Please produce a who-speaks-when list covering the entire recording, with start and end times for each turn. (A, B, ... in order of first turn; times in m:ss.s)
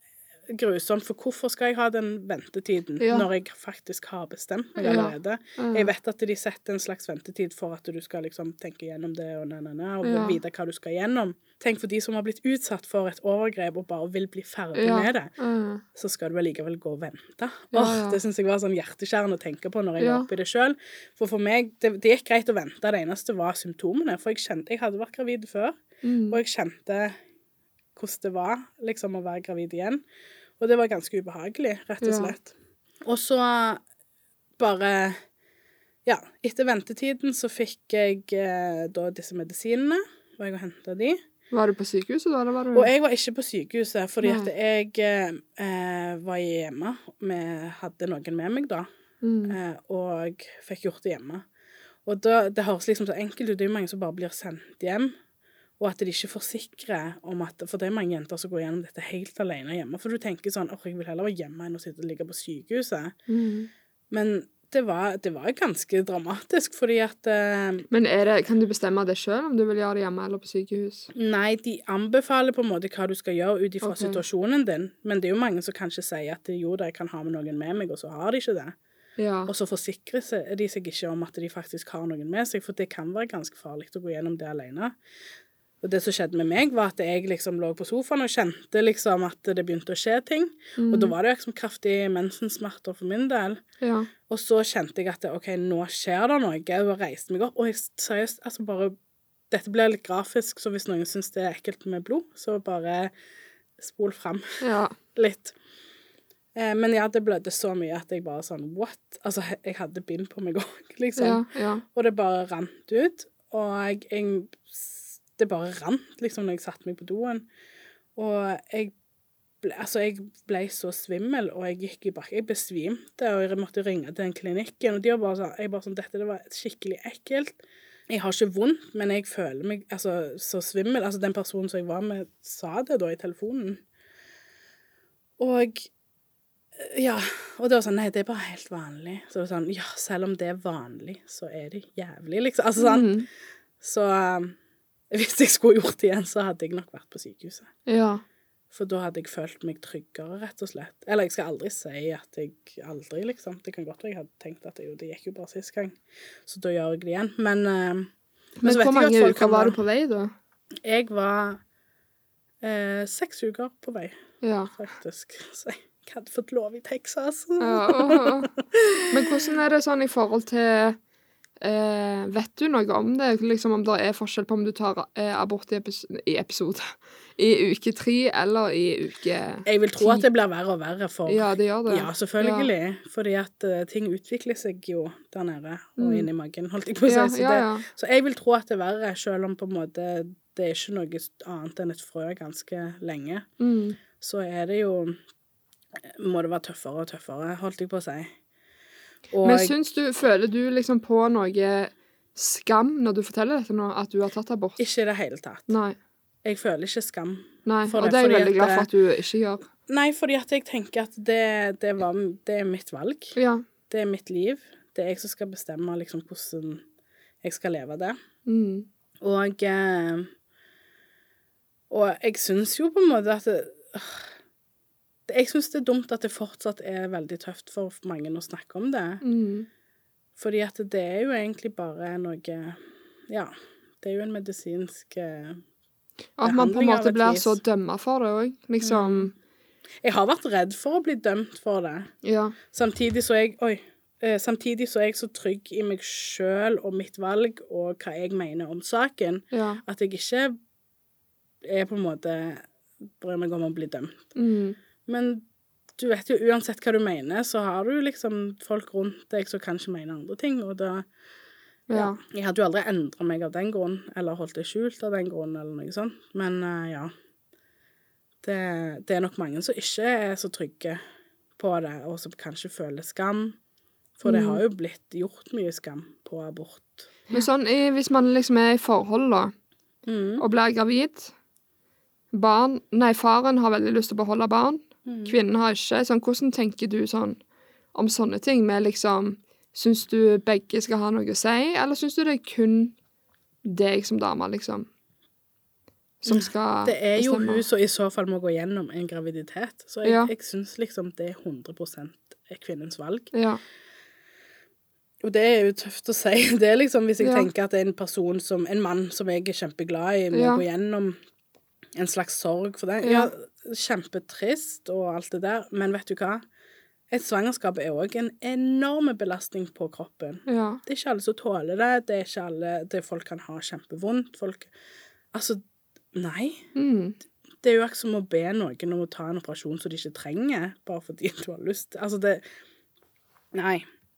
0:00.5-0:15.3 A
0:03.0-0:03.3 B
0:04.8-0:05.9 B
0:10.0-0:10.4 B
0:14.7-0:15.8 B
0:15.9-0:27.1 A
0:17.7-0:18.2 B
0:20.0-0:20.3 B
0:26.0-0:26.4 B
0:28.0-0:30.0 A
0:30.6-0:32.5 A
0:32.0-0:32.3 B
0:33.0-0:33.8 A
0:34.6-0:35.2 A
0:36.0-0:41.2 A
0:41.5-0:42.9 B
0:42.7-0:48.9 A
0:44.2-0:44.5 B
0:49.2-0:49.6 B
0:49.5-0:51.4 A
0:52.0-0:55.1 A
0:55.8-1:03.1 A
1:03.3-1:03.7 B
1:04.1-1:07.9 A
1:07.9-1:11.1 B
1:11.1-1:18.8 A
1:13.8-1:14.2 B
1:19.2-1:19.5 B
1:19.5-1:24.9 A
1:25.8-1:33.6 A
1:30.8-1:31.1 B
1:33.8-1:34.1 B
1:34.3-1:38.9 A
1:39.5-1:43.1 A
1:43.8-1:44.6 A
1:44.6-1:44.9 B
1:45.1-1:45.5 A
1:46.6-1:57.4 A
1:51.2-1:51.8 B
1:58.2-1:58.9 A
1:59.6-2:13.8 A
2:15.4-2:15.9 A
2:16.8-2:23.1 A
2:22.8-2:23.3 B
2:23.8-2:24.6 A
2:25.1-2:27.7 A
2:27.8-2:28.2 B
2:28.7-2:38.1 A
2:38.6-2:40.3 B
2:38.6-2:39.8 A
2:40.8-2:41.6 A
2:42.6-2:44.1 A
2:44.4-2:44.7 B
2:44.7-2:49.5 A
2:47.6-2:48.5 B
2:49.1-2:51.0 B
2:51.6-3:00.2 B
2:59.6-3:13.4 A
3:01.2-3:02.7 B
3:06.0-3:06.3 B
3:07.0-3:07.8 B
3:13.6-3:14.0 B
3:14.2-3:15.2 A
3:16.0-3:18.3 A
3:19.3-3:19.7 A
3:19.4-3:24.8 B
3:24.8-3:25.7 A
3:25.7-3:26.0 B
3:26.4-3:28.9 A
3:27.6-3:29.6 B
3:29.9-3:33.4 A
3:33.4-3:33.6 B
3:33.9-3:36.8 A
3:37.4-3:38.2 A
3:38.4-3:38.9 B
3:39.2-3:40.3 A
3:41.9-3:44.3 A
3:45.3-3:49.2 A
3:49.2-3:49.7 B
3:50.4-3:55.6 A
3:56.4-3:59.3 B
3:56.4-3:57.6 A
3:58.8-3:59.3 A
4:00.0-4:02.1 A
4:02.2-4:02.6 B
4:02.7-4:10.5 A
4:09.5-4:09.8 B
4:11.6-4:12.6 A
4:13.2-4:14.3 A
4:14.3-4:14.8 B
4:15.0-4:15.4 A
4:16.0-4:21.0 A
4:21.9-4:22.2 B
4:21.9-4:27.1 A
4:28.4-4:31.0 A
4:31.6-4:33.6 A
4:34.2-4:37.4 A
4:34.2-4:34.6 B
4:37.3-4:39.5 B
4:40.0-4:40.4 A
4:40.4-4:41.3 B
4:42.3-4:47.4 B
4:45.0-4:45.4 A
4:47.9-4:52.9 B
4:53.6-4:54.9 B
4:56.2-4:57.6 B
4:56.3-5:03.3 A
5:00.0-5:00.3 B
5:03.3-5:03.6 B
5:05.2-5:11.2 A
5:07.2-5:07.5 B
5:10.3-5:10.6 B
5:12.0-5:16.4 A
5:13.0-5:13.3 B
5:17.1-5:24.7 A
5:20.4-5:20.8 B
5:25.3-5:25.6 A
5:26.1-5:26.6 A
5:26.7-5:27.2 B
5:27.6-5:32.4 A
5:33.5-5:33.8 A